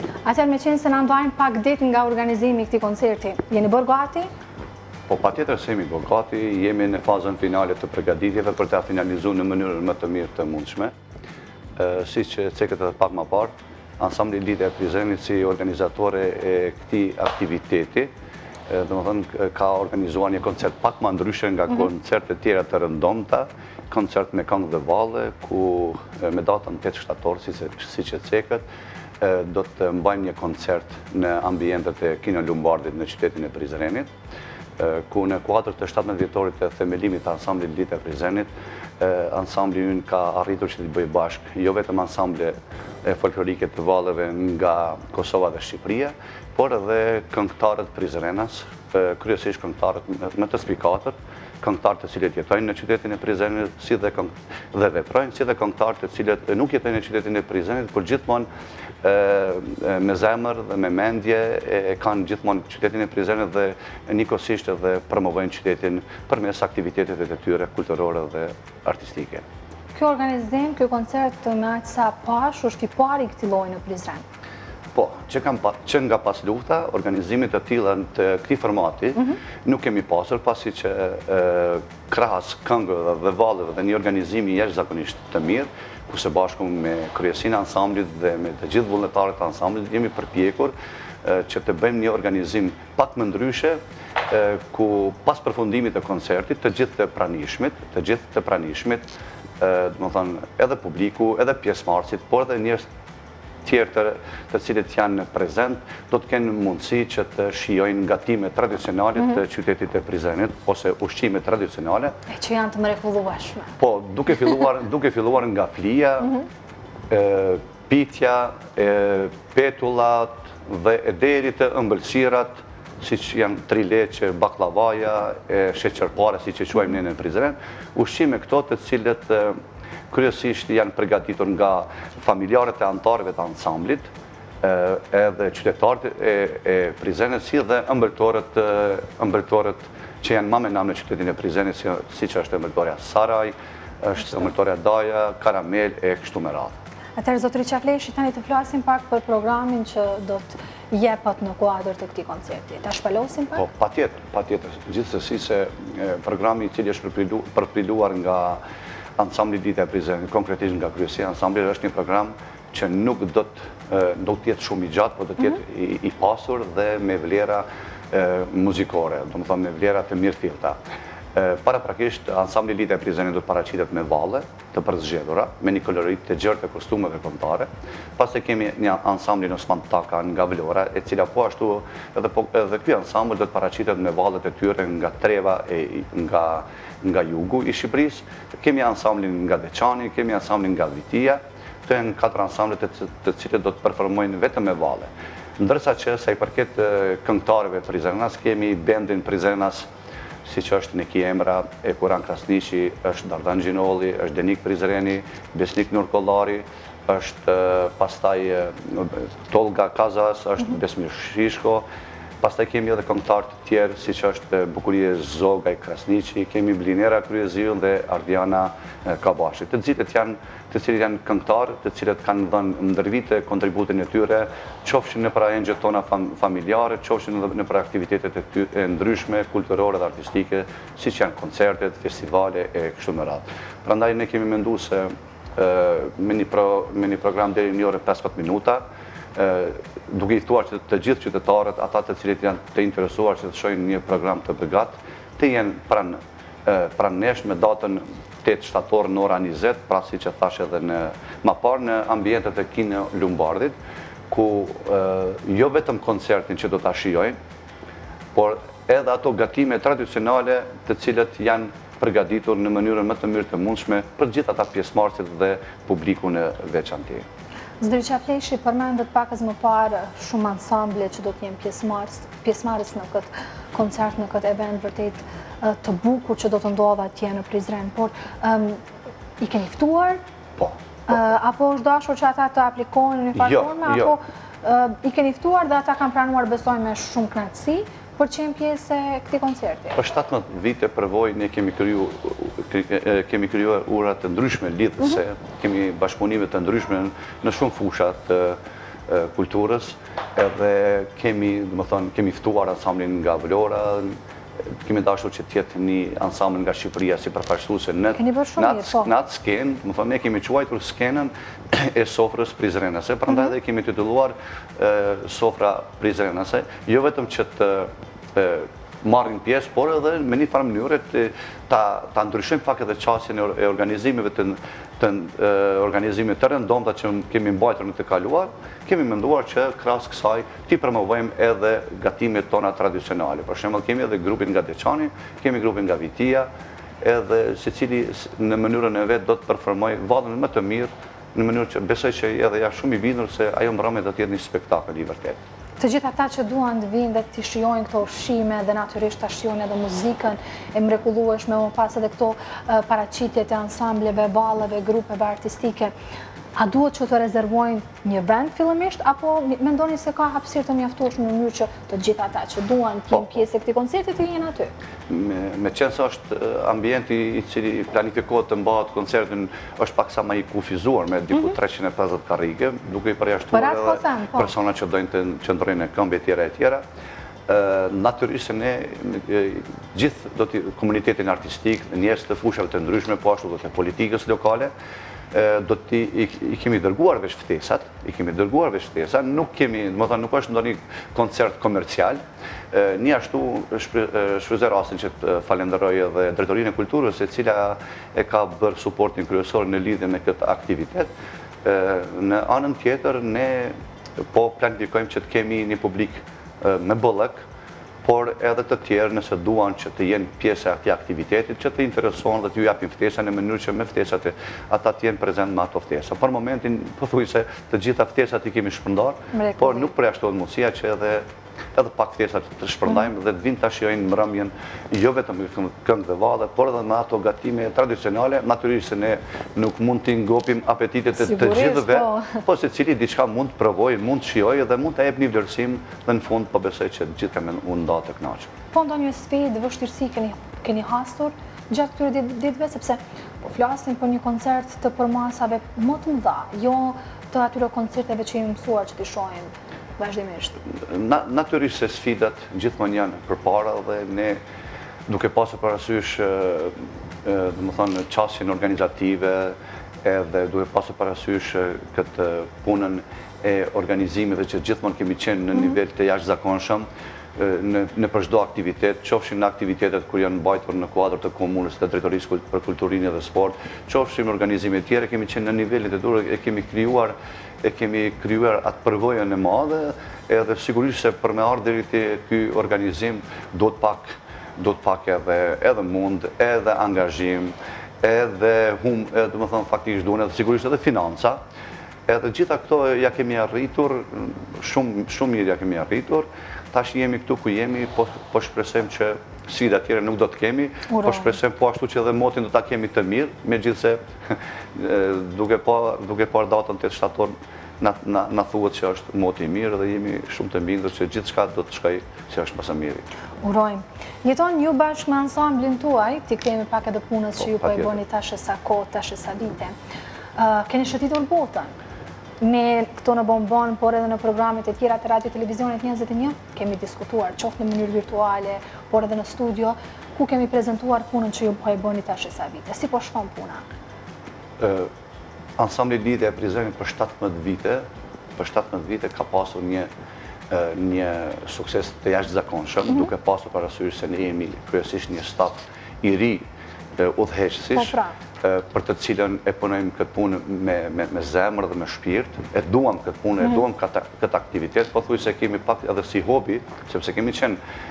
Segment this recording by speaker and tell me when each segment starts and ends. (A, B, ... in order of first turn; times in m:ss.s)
0:00.2-0:04.3 A
0:05.1-0:10.9 B
0:11.8-0:18.1 B
0:18.7-0:28.6 B
0:29.2-0:34.1 B
0:34.8-0:58.5 B
0:59.0-1:09.4 B
1:09.9-1:14.2 A
1:14.9-1:39.1 B
1:39.6-1:42.8 B
1:43.6-1:52.1 B
1:52.3-1:53.7 A
1:53.8-1:56.4 B
1:57.1-2:09.5 B
2:10.1-2:14.1 B
2:14.6-2:26.7 B
2:27.2-2:33.6 A
2:33.5-2:38.6 B
2:39.2-2:50.8 B
2:51.3-3:19.9 B
3:20.4-3:31.8 B
3:32.4-3:58.8 B
3:59.4-4:13.7 B
4:14.3-4:17.4 B
4:18.3-4:27.2 B
4:27.8-4:38.8 A
4:39.4-4:40.2 A
4:41.1-4:50.0 A
4:43.4-4:44.1 B
4:50.0-5:04.1 B
5:04.8-5:36.5 B
5:08.1-5:09.1 A
5:37.0-5:45.4 B
5:45.8-5:55.9 A
5:56.5-6:04.7 A
6:03.1-6:03.4 B
6:05.1-6:16.8 B
6:13.5-6:14.5 A
6:17.5-6:24.7 B
6:25.3-6:32.2 B
6:32.7-6:41.1 B
6:41.6-6:43.7 B
6:44.3-6:47.4 B
6:48.0-7:18.5 B
6:59.3-6:59.9 A
7:11.2-7:12.3 A
7:18.7-7:30.6 A
7:30.8-7:34.4 B
7:35.1-7:36.7 B
7:37.2-8:11.4 B
8:12.1-8:33.0 B
8:20.9-8:21.3 A
8:33.4-8:39.7 A
8:37.4-8:38.0 B
8:40.4-8:41.7 A
8:42.4-8:53.6 A
8:54.6-8:54.9 B
8:55.6-8:57.8 B
8:58.4-8:59.9 B
9:00.5-9:06.4 B
9:07.0-9:17.6 B
9:07.7-9:08.1 A